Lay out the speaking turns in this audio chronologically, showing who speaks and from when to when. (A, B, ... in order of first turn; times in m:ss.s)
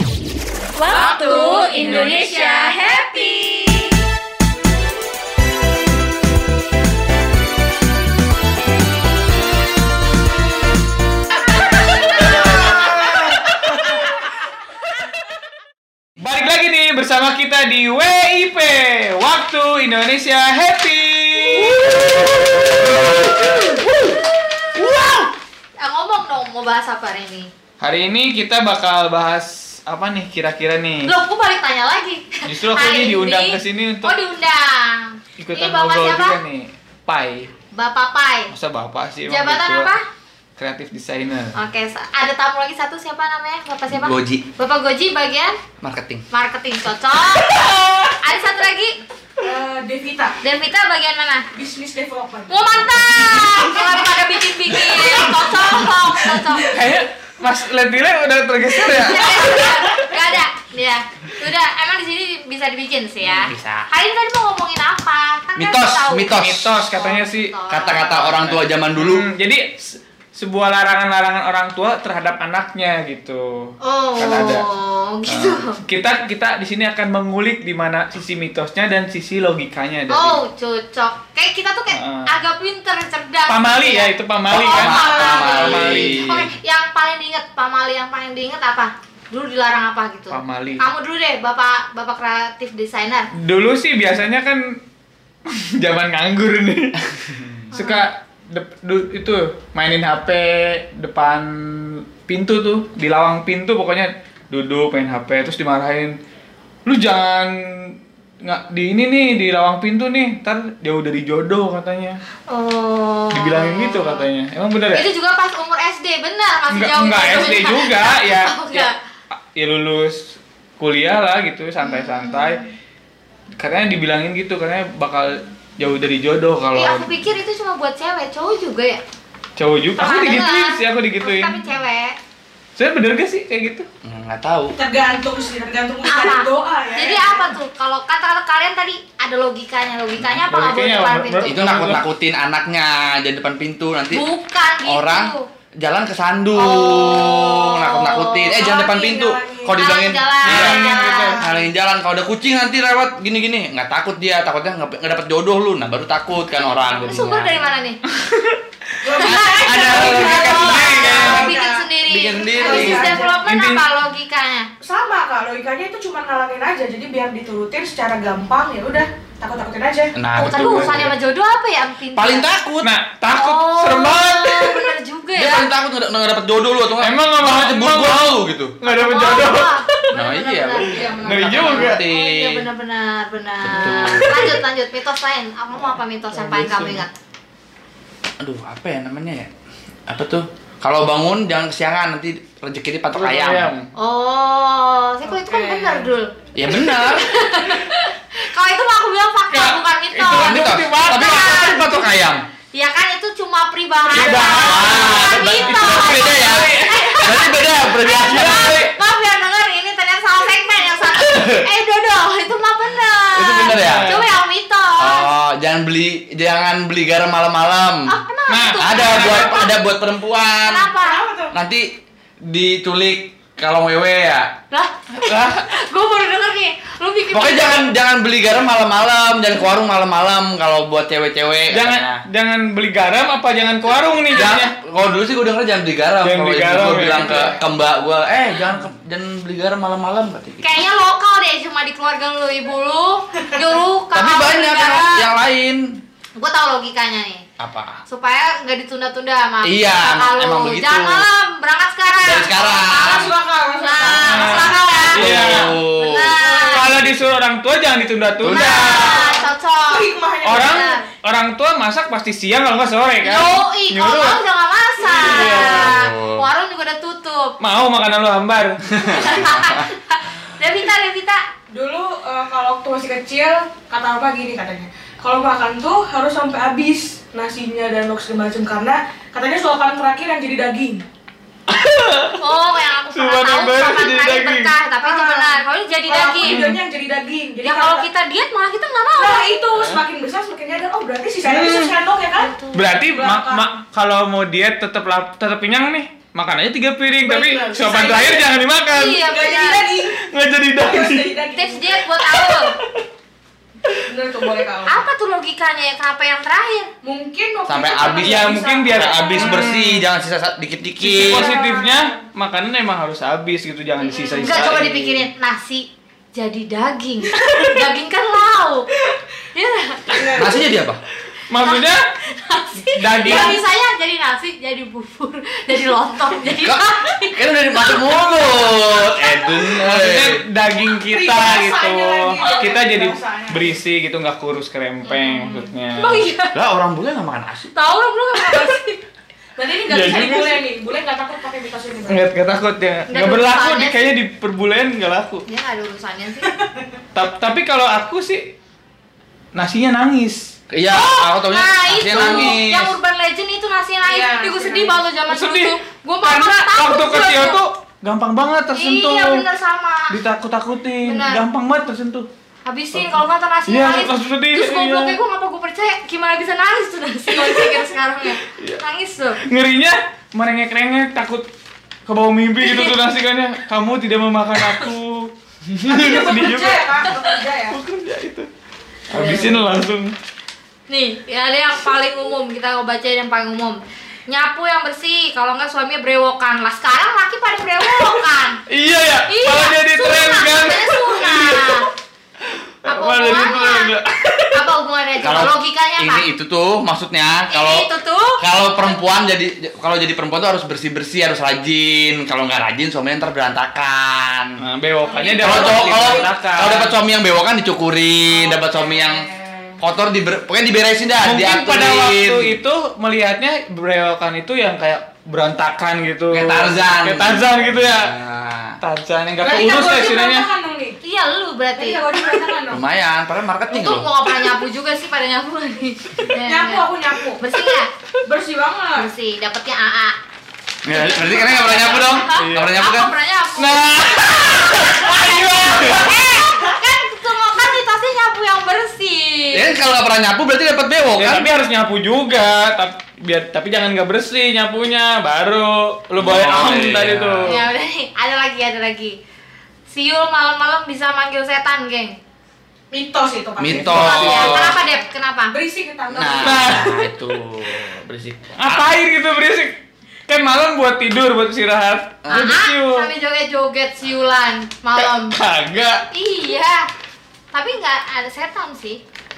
0:00.8-0:04.0 A
0:01.0-0:02.7 B
0:01.0-0:01.5 C
0:11.7-0:14.2 B
0:12.2-0:12.9 A
0:16.2-0:23.8 B
0:21.9-0:22.2 A
0:22.0-0:23.5 D
0:25.8-0:27.5 A
0:27.8-0:31.1 B
0:31.0-0:36.4 A
0:32.4-0:34.1 B
0:35.4-0:37.5 B
0:37.7-0:38.5 A
0:38.5-0:39.9 B
0:39.3-0:40.0 A
0:40.6-0:41.6 B
0:41.6-0:45.6 A
0:43.9-0:44.4 D
0:45.8-0:46.2 D
0:46.3-0:49.0 A
0:49.4-0:50.4 C
0:50.4-0:51.5 A
0:51.5-0:52.6 C
0:52.5-0:56.8 A
0:53.4-0:55.0 C
0:56.7-1:00.2 B
0:58.8-1:06.3 A
1:03.3-1:03.9 D
1:05.6-1:06.8 D
1:06.3-1:07.6 B
1:06.9-1:08.4 A
1:07.7-1:09.2 D
1:08.2-1:14.7 B
1:13.8-1:15.8 A
1:15.3-1:20.4 B
1:20.1-1:33.3 A
1:21.9-1:22.3 B
1:23.5-1:26.4 B
1:24.5-1:26.5 D
1:30.3-1:30.9 B
1:33.4-1:34.8 B
1:35.5-1:46.2 B
1:37.7-1:38.1 A
1:46.9-1:52.2 B
1:52.5-1:54.2 A
1:53.3-1:55.1 B
1:54.9-1:58.9 A
1:56.7-1:58.9 B
1:59.5-2:02.6 B
2:01.8-2:02.7 A
2:03.6-2:07.1 B
2:06.7-2:09.0 A
2:09.6-2:11.6 B
2:10.0-2:12.2 A
2:12.8-2:13.9 B
2:14.0-2:14.8 D
2:14.8-2:17.6 C
2:16.0-2:21.6 A
2:20.2-2:22.0 B
2:21.4-2:24.3 D
2:24.1-2:25.4 A
2:24.8-2:37.7 D
2:26.5-2:28.7 A
2:28.5-2:29.8 C
2:29.7-2:31.4 A
2:30.4-2:31.4 B
2:31.0-2:31.6 C
2:37.1-2:38.0 A
2:38.1-2:38.6 B
2:39.0-2:41.9 C
2:39.2-2:44.7 A
2:39.2-2:41.5 B
2:39.3-2:40.7 D
2:42.1-2:43.2 D
2:42.5-2:43.4 C
2:43.4-2:43.8 B
2:44.8-2:50.2 C
2:50.2-2:51.1 D
2:50.4-2:52.5 A
2:50.5-2:51.0 B
2:52.2-2:52.9 D
2:52.8-2:55.0 B
2:53.4-2:55.7 A
2:55.3-2:58.8 D
2:57.0-3:00.0 B
2:58.8-3:07.1 A
3:00.1-3:02.7 D
3:00.9-3:01.8 C
3:01.2-3:02.0 B
3:03.7-3:04.6 D
3:03.8-3:04.5 B
3:06.3-3:07.0 B
3:08.4-3:09.5 D
3:10.1-3:13.7 D
3:13.1-3:13.9 B
3:13.9-3:21.8 A
3:15.2-3:16.1 C
3:16.5-3:17.4 D
3:19.5-3:21.6 B
3:20.2-3:22.4 D
3:22.7-3:35.3 A
3:24.1-3:27.4 B
3:24.4-3:28.8 D
3:28.1-3:28.9 B
3:31.1-3:31.7 D
3:33.3-3:34.2 D
3:33.6-3:34.2 B
3:35.0-3:38.1 D
3:38.1-3:39.7 A
3:38.5-3:39.6 B
3:38.8-3:40.9 D
3:40.6-3:41.2 A
3:41.0-3:41.6 C
3:41.5-3:41.9 D
3:42.4-3:44.5 D
3:44.7-3:47.9 A
3:45.2-3:45.6 B
3:47.3-3:52.2 D
3:51.7-3:54.7 B
3:53.9-3:54.6 A
3:54.3-4:00.7 D
3:56.2-3:57.6 B
4:00.6-4:05.3 A
4:04.1-4:06.0 D
4:06.4-4:07.4 A
4:07.6-4:08.0 D
4:08.1-4:16.9 A
4:09.6-4:11.2 D
4:12.2-4:13.3 D
4:12.9-4:15.0 C
4:14.0-4:17.3 D
4:14.1-4:15.8 B
4:16.4-4:16.7 C
4:16.6-4:19.1 B
4:18.4-4:19.3 D
4:18.4-4:21.0 A
4:18.8-4:20.9 C
4:20.4-4:24.4 B
4:23.2-4:27.6 A
4:25.1-4:25.5 C
4:25.2-4:26.0 B
4:25.3-4:26.5 D
4:27.6-4:28.9 B
4:28.9-4:29.8 D
4:29.0-4:31.4 A
4:31.7-4:41.0 C
4:41.7-4:42.4 B
4:42.4-4:46.7 A
4:43.1-4:44.7 B
4:45.0-4:48.1 C
4:46.4-4:46.8 B
4:47.6-4:49.5 A
4:49.2-4:53.7 C
4:49.8-4:50.0 B
4:51.4-4:52.0 B
4:52.4-4:52.8 A
4:52.7-4:59.2 B
4:57.2-4:58.4 C
4:57.9-4:58.4 A
4:58.9-4:59.9 A
4:59.2-5:00.2 C
5:00.2-5:01.3 B
5:00.8-5:02.0 C
5:01.6-5:02.8 A
5:02.3-5:03.0 B
5:04.1-5:05.0 C
5:04.9-5:06.9 A
5:07.0-5:09.6 C
5:07.7-5:11.5 D
5:08.2-5:10.0 B
5:11.0-5:15.2 B
5:11.2-5:12.2 C
5:14.1-5:18.9 A
5:14.1-5:14.6 C
5:19.5-5:20.4 A
5:20.1-5:20.6 C
5:20.3-5:21.0 D
5:21.5-5:22.0 B
5:21.6-5:28.2 A
5:22.8-5:23.6 B
5:23.2-5:23.6 C
5:26.5-5:30.4 D
5:29.7-5:36.2 B
5:31.0-5:33.8 C
5:32.4-5:32.7 A
5:35.1-5:36.5 A
5:36.5-5:37.7 D
5:37.7-5:39.0 A
5:38.4-5:38.7 C
5:39.6-5:42.2 C
5:39.9-5:40.6 B
5:42.1-5:45.4 B
5:43.1-5:44.1 A
5:45.5-5:46.5 A
5:46.5-5:46.8 C
5:47.1-5:48.5 B
5:49.6-5:50.5 B
5:50.7-5:52.9 D
5:50.9-5:57.6 A
5:52.1-5:52.5 B
5:54.0-5:55.0 C
5:55.3-5:59.4 B
5:58.7-6:00.2 A
6:00.1-6:02.3 B
6:01.0-6:01.4 A
6:02.6-6:09.4 A
6:02.9-6:05.2 B
6:08.4-6:08.8 B
6:09.4-6:11.4 B
6:12.1-6:17.1 B
6:12.6-6:12.9 A
6:15.9-6:17.8 C
6:17.7-6:18.5 B
6:19.1-6:20.1 B
6:19.1-6:19.6 A
6:20.9-6:28.6 A
6:28.7-6:31.8 B
6:29.3-6:31.9 A
6:32.5-6:34.6 B
6:32.9-6:33.9 A
6:34.5-6:36.3 A
6:35.2-6:37.9 D
6:37.5-6:38.9 A
6:38.4-6:44.6 D
6:44.6-6:46.9 B
6:45.0-6:46.3 C
6:45.4-6:49.3 D
6:48.3-6:49.8 C
6:49.8-6:52.6 D
6:51.2-6:58.1 B
6:56.3-6:58.8 D
6:58.8-7:00.5 B
6:59.4-7:01.0 C
7:01.0-7:02.4 A
7:01.8-7:02.8 C
7:02.7-7:04.1 D
7:03.7-7:06.9 A
7:06.4-7:07.4 C
7:07.4-7:07.9 A
7:08.2-7:09.1 C
7:09.0-7:10.2 A
7:10.8-7:13.1 D
7:10.9-7:19.7 A
7:12.4-7:12.7 B
7:13.6-7:16.2 B
7:19.5-7:21.5 D
7:21.2-7:27.6 B
7:26.2-7:27.5 D
7:27.4-7:29.2 A
7:29.9-7:32.2 A
7:32.9-7:34.8 C
7:33.6-7:34.8 D
7:33.7-7:34.6 B
7:34.0-7:35.6 A
7:35.5-7:36.8 C
7:36.1-7:38.9 D
7:36.4-7:37.1 B
7:38.6-7:39.7 B
7:40.3-7:43.1 B
7:42.2-7:42.5 D
7:42.3-7:45.4 A
7:45.0-7:46.1 B
7:46.1-7:46.9 A
7:47.5-7:49.0 A